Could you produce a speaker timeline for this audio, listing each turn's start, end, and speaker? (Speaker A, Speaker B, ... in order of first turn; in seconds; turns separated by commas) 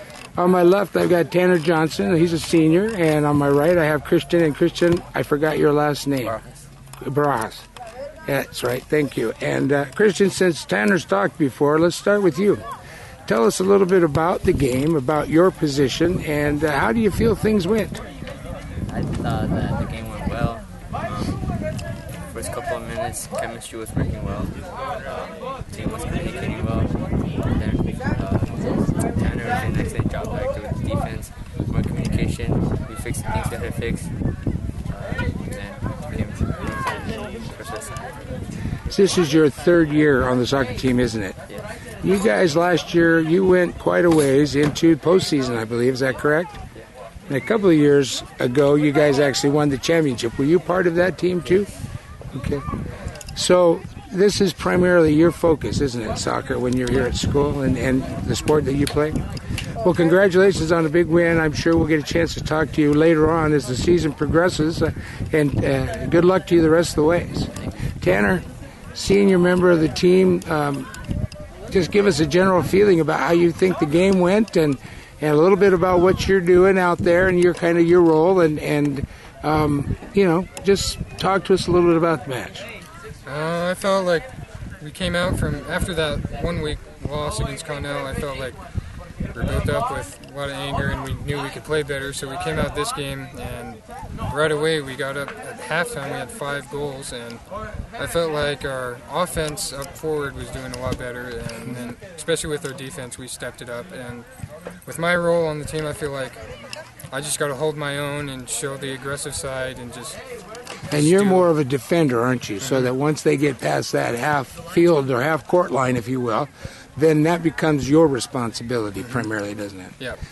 Speaker A: 0.4-6.4, Speaker B: 6.2-6.7, Speaker A: 7.0-7.7, Speaker A: 8.3-12.6, Speaker A: 13.3-18.0, Speaker B: 18.9-21.4, Speaker B: 22.3-34.2, Speaker B: 34.9-38.3, Speaker A: 38.9-41.4, Speaker A: 42.0-46.6, Speaker A: 47.3-51.7, Speaker A: 52.3-52.7, Speaker A: 53.4-59.2, Speaker A: 59.8-70.9, Speaker A: 71.7-82.7, Speaker C: 83.3-88.6, Speaker C: 89.3-97.4, Speaker C: 98.0-104.3, Speaker A: 101.7-101.9, Speaker C: 104.8-106.5, Speaker C: 107.1-110.2, Speaker C: 110.9-111.5, Speaker A: 110.9-120.0, Speaker C: 112.6-112.9, Speaker C: 119.0-119.3